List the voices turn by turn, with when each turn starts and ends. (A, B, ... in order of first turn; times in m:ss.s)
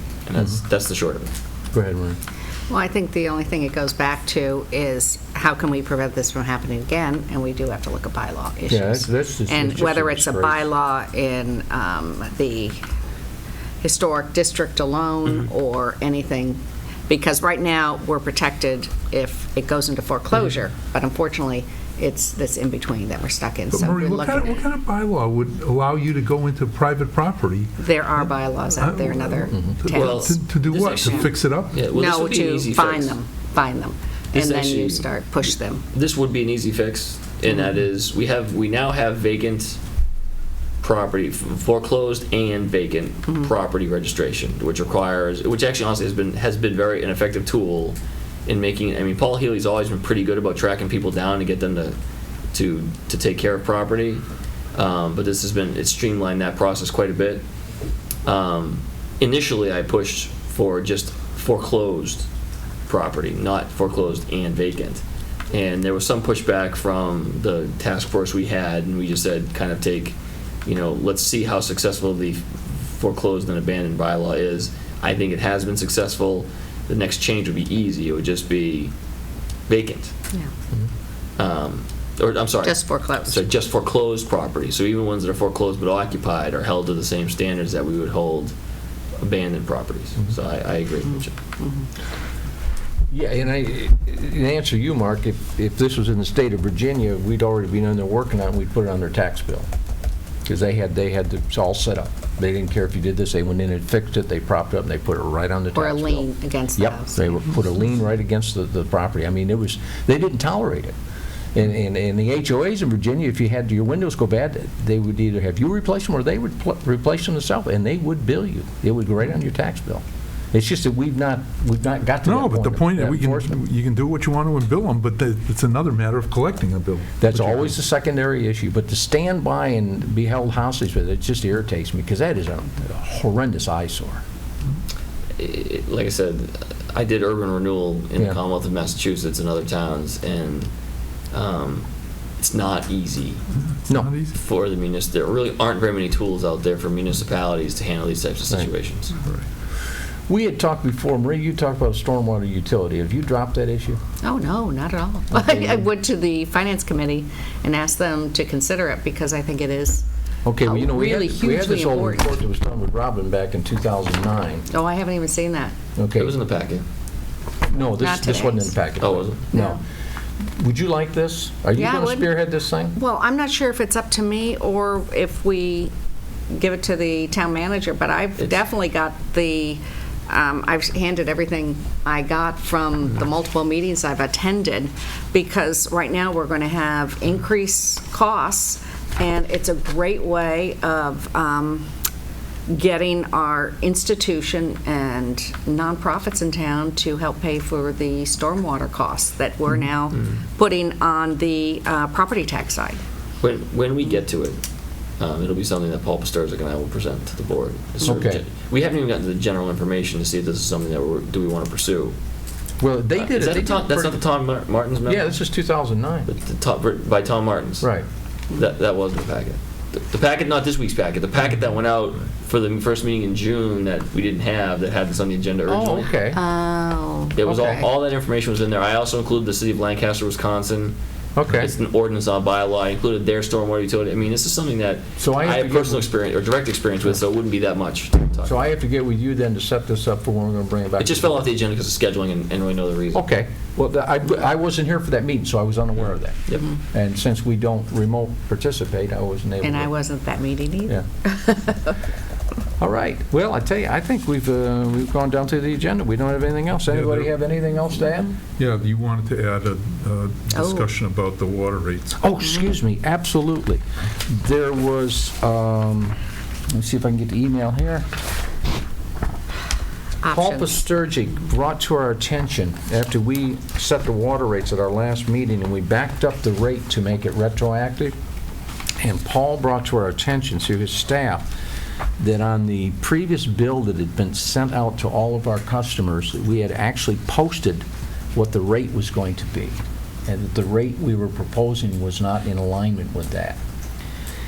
0:00.3-0:01.3 A
0:01.7-0:02.2 B
0:02.7-0:12.8 C
0:08.7-0:10.7 B
0:13.8-0:24.6 C
0:23.7-0:31.8 D
0:27.8-0:30.4 C
0:29.9-0:33.2 A
0:31.0-0:31.3 C
0:31.9-0:35.8 C
0:34.3-0:39.8 A
0:40.8-0:52.0 A
0:52.5-0:54.2 A
0:54.8-0:57.4 A
0:58.2-1:02.3 A
1:02.9-1:18.9 A
1:19.7-1:20.1 A
1:21.4-1:28.5 A
1:22.6-1:23.4 C
1:29.2-1:31.4 A
1:31.6-1:31.9 C
1:33.1-1:39.7 B
1:40.5-1:50.9 B
1:45.7-1:47.3 C
1:51.6-2:03.5 B
2:02.2-2:07.7 D
2:07.2-2:14.2 B
2:15.4-2:20.7 A
2:21.3-2:21.9 A
2:22.4-2:23.4 A
2:23.8-2:24.4 D
2:24.3-2:29.1 A
2:30.3-2:34.0 B
2:34.2-2:40.0 C
2:35.3-2:35.8 B
2:40.4-2:44.7 B
2:40.6-2:42.3 C
2:44.7-2:45.7 C
2:46.0-2:46.4 B
2:46.2-2:46.8 A
2:47.7-2:49.8 B
2:47.8-2:48.7 C
2:49.0-2:49.5 A
2:49.5-2:49.8 C
2:50.4-2:53.0 B
2:51.8-2:52.4 C
2:52.9-2:55.9 C
2:56.5-3:11.9 C
3:12.7-3:23.0 C
3:20.2-3:20.4 A
3:23.4-3:24.6 A
3:25.2-3:32.2 A
3:28.0-3:28.4 B
3:32.8-3:34.2 B
3:33.2-3:35.4 A
3:35.1-3:36.3 B
3:36.3-3:37.9 A
3:38.5-3:46.1 A
3:45.7-3:46.4 B
3:46.3-3:47.9 C
3:47.4-3:51.0 A
3:51.4-3:51.7 B
3:51.5-3:58.6 A
3:55.2-3:56.1 B
3:58.4-4:01.4 B
4:01.0-4:03.3 A
4:03.1-4:09.9 B
4:09.6-4:12.0 C
4:12.8-4:18.4 B
4:16.9-4:17.3 D
4:18.6-4:22.2 D
4:20.5-4:20.9 C
4:22.2-4:28.0 B
4:30.2-4:30.9 C
4:30.3-4:38.2 B
4:39.0-4:41.5 B
4:42.2-4:47.8 B
4:48.4-4:53.6 B